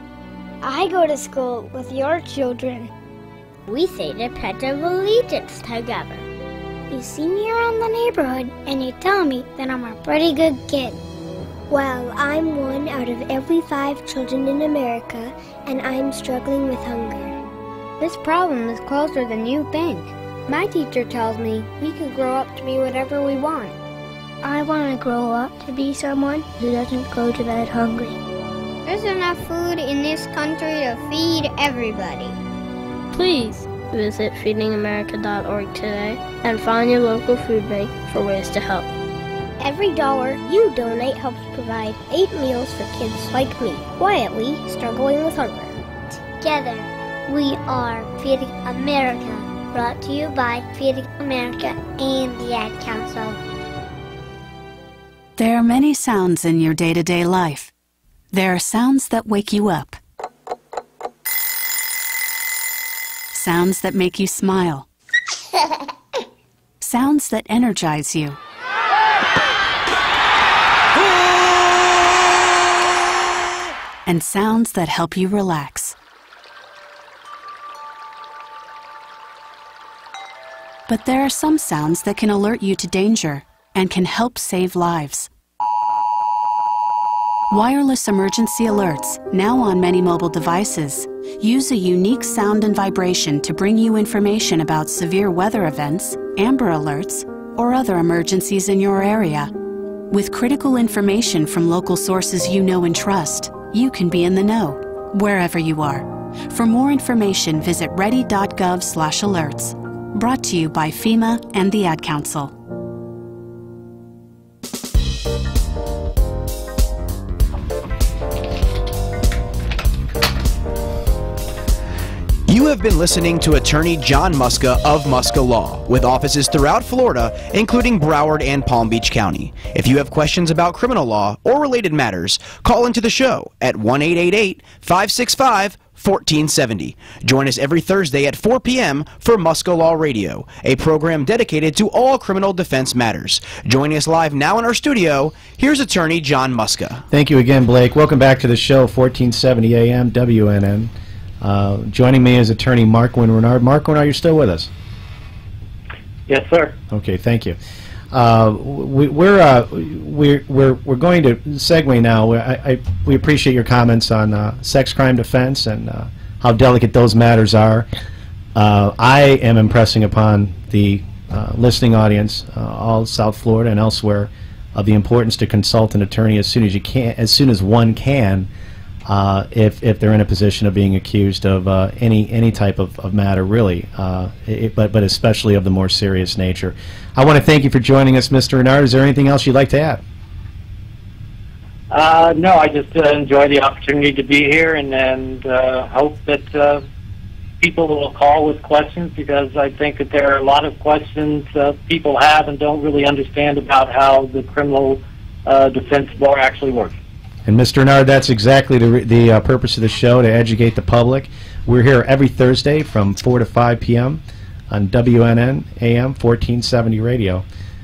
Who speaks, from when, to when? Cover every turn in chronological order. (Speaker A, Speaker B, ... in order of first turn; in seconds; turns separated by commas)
Speaker A: 0.6-2.9, Speaker A: 3.7-6.3, Speaker A: 6.9-11.0, Speaker A: 11.7-17.4, Speaker A: 18.0-23.8, Speaker A: 24.4-28.2, Speaker A: 28.9-32.4, Speaker B: 33.1-38.9, Speaker A: 39.6-53.4, Speaker C: 55.4-57.7, Speaker C: 58.3-60.0, Speaker C: 63.3-64.9, Speaker C: 66.8-68.4, Speaker C: 74.1-76.0, Speaker C: 80.9-85.3, Speaker C: 87.5-99.5, Speaker C: 100.1-112.5, Speaker D: 122.5-147.0, Speaker E: 147.1-154.7, Speaker F: 156.3-156.8, Speaker E: 156.9-157.6, Speaker E: 158.1-167.9, Speaker E: 168.6-178.5, Speaker E: 179.1-190.0, Speaker F: 191.9-196.8, Speaker F: 197.6-206.9, Speaker E: 207.5-217.4